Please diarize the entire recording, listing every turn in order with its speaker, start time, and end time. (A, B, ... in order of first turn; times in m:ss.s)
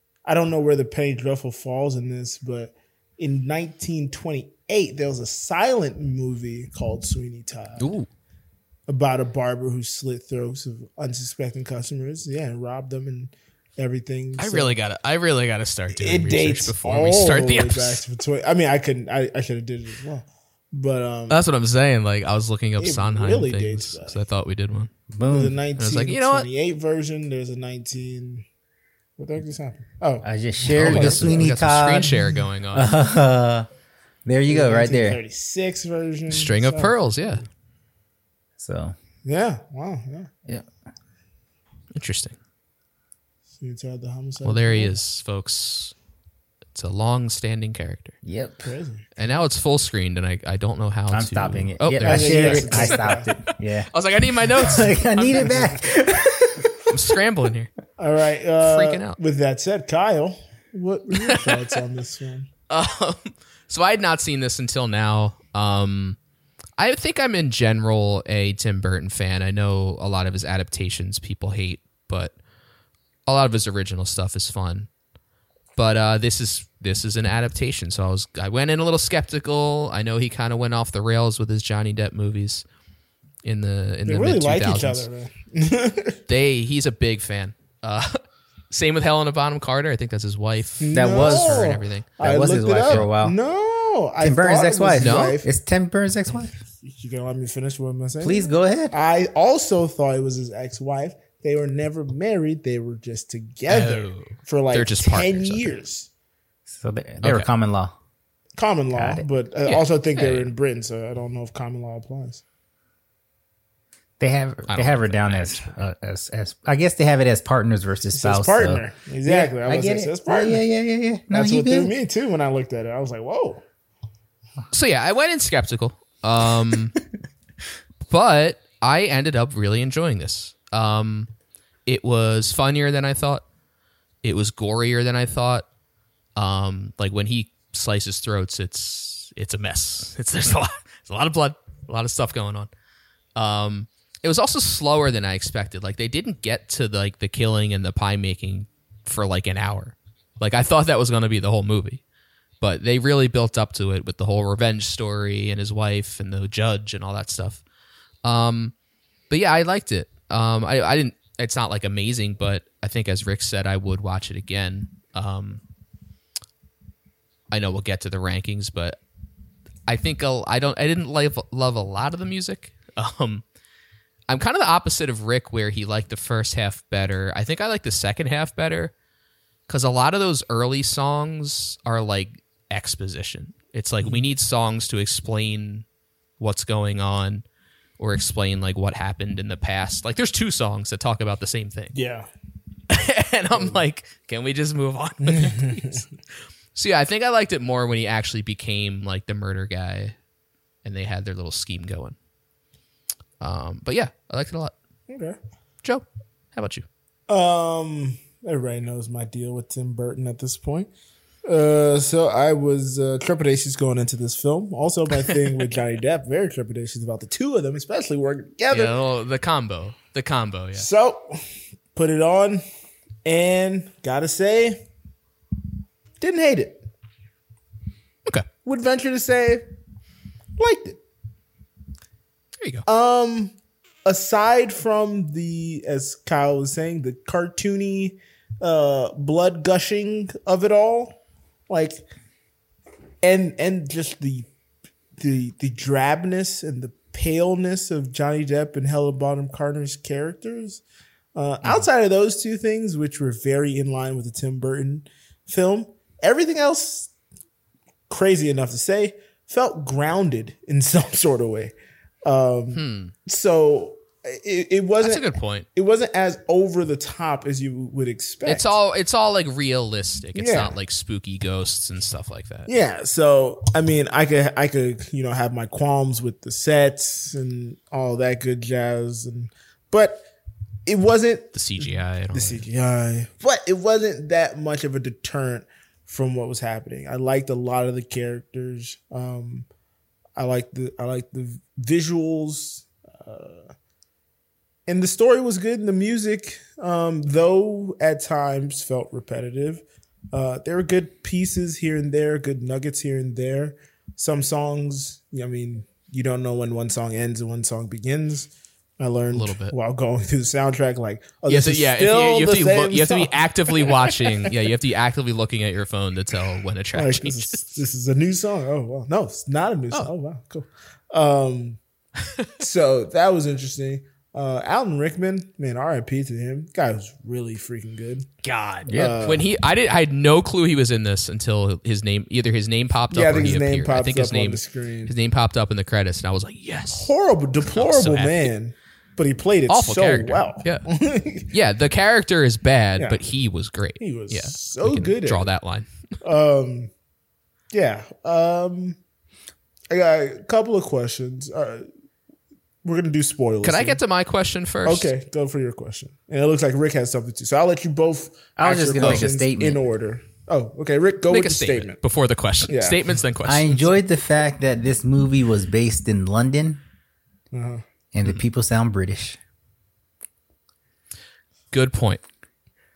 0:00.2-0:07.9 A
0:07.8-0:08.1 B
0:08.9-0:14.8 A
0:14.4-0:18.0 B
0:15.9-0:21.4 A
0:21.3-0:24.9 B
0:22.8-0:24.2 A
0:25.1-0:25.6 C
0:25.3-0:28.4 A
0:25.8-0:26.5 B
0:29.2-0:31.5 A
0:30.2-0:33.7 C
0:30.7-0:33.0 B
0:34.2-0:35.2 C
0:34.5-0:37.4 A
0:36.3-0:37.4 B
0:38.6-0:39.0 C
0:39.2-0:40.3 A
0:41.9-0:42.4 B
0:43.6-0:44.9 A
0:44.4-0:45.9 B
0:46.8-0:48.2 B
0:48.2-0:48.7 C
0:48.6-0:49.1 A
0:49.2-0:53.1 B
0:51.1-0:56.7 C
0:52.0-0:53.3 A
0:53.9-0:55.6 B
0:56.9-0:57.7 B
0:58.0-1:02.5 A
0:58.6-0:59.2 B
1:02.7-1:06.2 B
1:06.8-1:12.3 B
1:13.3-1:14.9 B
1:15.8-1:22.6 B
1:23.4-1:25.1 B
1:24.1-1:26.2 A
1:26.3-1:32.1 B
1:30.8-1:35.5 A
1:30.9-1:33.4 C
1:34.2-1:36.6 C
1:35.0-1:35.4 B
1:36.8-1:46.1 A
1:38.2-1:38.9 C
1:43.7-1:45.8 B
1:46.7-1:48.0 C
1:47.2-1:47.5 B
1:48.6-1:52.4 A
1:49.0-1:49.2 C
1:49.7-1:50.5 B
1:54.2-2:01.9 C
1:54.7-1:55.8 B
1:58.1-2:00.6 A
2:01.3-2:03.6 A
2:04.7-2:07.0 B
2:08.1-2:11.3 B
2:11.9-2:13.4 B
2:14.2-2:15.7 B
2:16.4-2:22.7 B
2:23.4-2:32.0 B
2:32.6-2:37.6 B
2:38.2-2:38.7 B
2:39.3-2:45.6 B
2:47.5-2:49.0 B
2:49.9-2:53.4 B
2:54.3-2:58.9 B
2:59.7-3:05.8 B
3:06.4-3:07.4 B
3:08.0-3:11.9 B
3:11.9-3:12.3 A
3:12.9-3:16.0 B
3:13.6-3:13.8 A
3:15.2-3:16.0 A
3:16.8-3:20.2 B
3:20.8-3:22.2 B
3:23.4-3:24.7 B
3:25.1-3:25.4 A
3:25.8-3:26.9 B
3:27.3-3:30.9 A
3:31.4-3:38.9 A
3:38.7-3:40.9 B
3:40.8-3:41.4 A
3:42.0-3:42.6 A
3:43.2-3:44.8 A
3:46.2-3:46.8 A
3:48.6-3:49.6 A
3:50.6-3:51.0 A
3:52.6-3:52.8 B
3:52.9-3:53.5 A
3:54.0-4:01.2 A
4:01.7-4:02.0 A
4:03.2-4:04.5 A
4:05.2-4:10.8 A
4:11.4-4:17.1 A
4:18.1-4:21.7 A
4:22.2-4:28.8 A
4:22.7-4:23.1 B
4:25.0-4:25.7 B
4:28.5-4:32.7 B
4:30.4-4:30.8 A
4:32.7-4:40.3 A
4:40.9-4:49.7 A
4:41.5-4:42.6 B
4:50.4-4:53.7 A
4:54.9-5:14.5 A
5:09.3-5:09.7 B
5:11.5-5:17.6 B
5:16.9-5:21.8 A
5:22.6-5:28.3 A
5:28.4-5:37.1 B
5:28.9-5:29.2 C
5:28.9-5:29.5 A
5:33.1-5:35.1 A
5:36.9-5:41.5 A
5:37.7-5:38.5 B
5:39.7-5:40.9 B
5:41.5-5:45.9 B
5:44.0-5:45.5 A
5:46.2-5:46.9 A
5:47.7-5:49.0 A
5:49.9-5:51.9 A
5:52.8-5:54.0 A
5:53.6-5:55.1 B
5:54.8-6:02.0 A
5:58.6-5:59.8 C
6:01.3-6:03.9 B
6:02.7-6:03.0 A
6:03.4-6:06.8 C
6:07.5-6:07.8 A
6:08.1-6:09.4 C
6:11.7-6:12.2 B